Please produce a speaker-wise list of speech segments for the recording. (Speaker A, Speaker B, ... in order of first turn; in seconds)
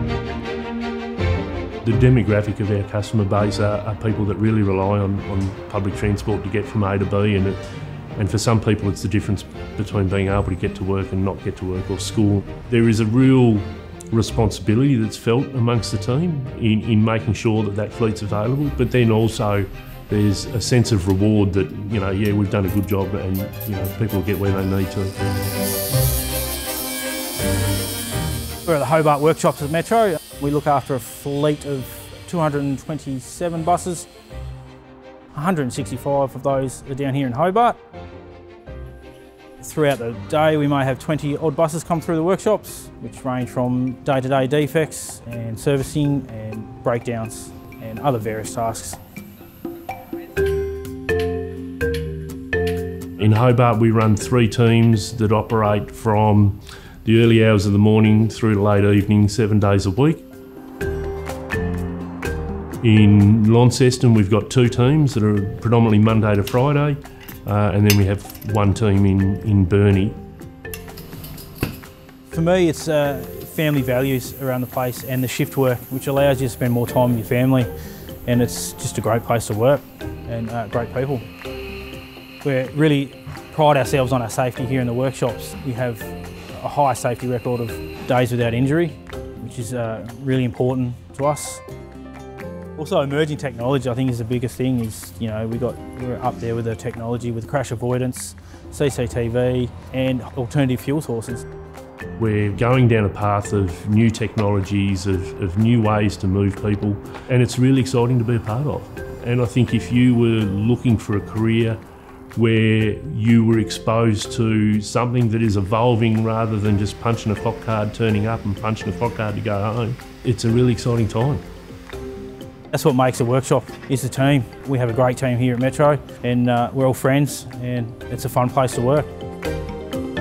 Speaker A: 1.8-7.6, 8.2-25.1, 53.2-60.2, 62.8-70.2, 102.2-111.8, 112.3-121.5
Speaker B: 28.6-34.1, 35.3-37.8, 39.6-49.0, 72.3-77.7, 78.2-81.3, 82.4-91.6, 92.8-101.4, 122.7-129.1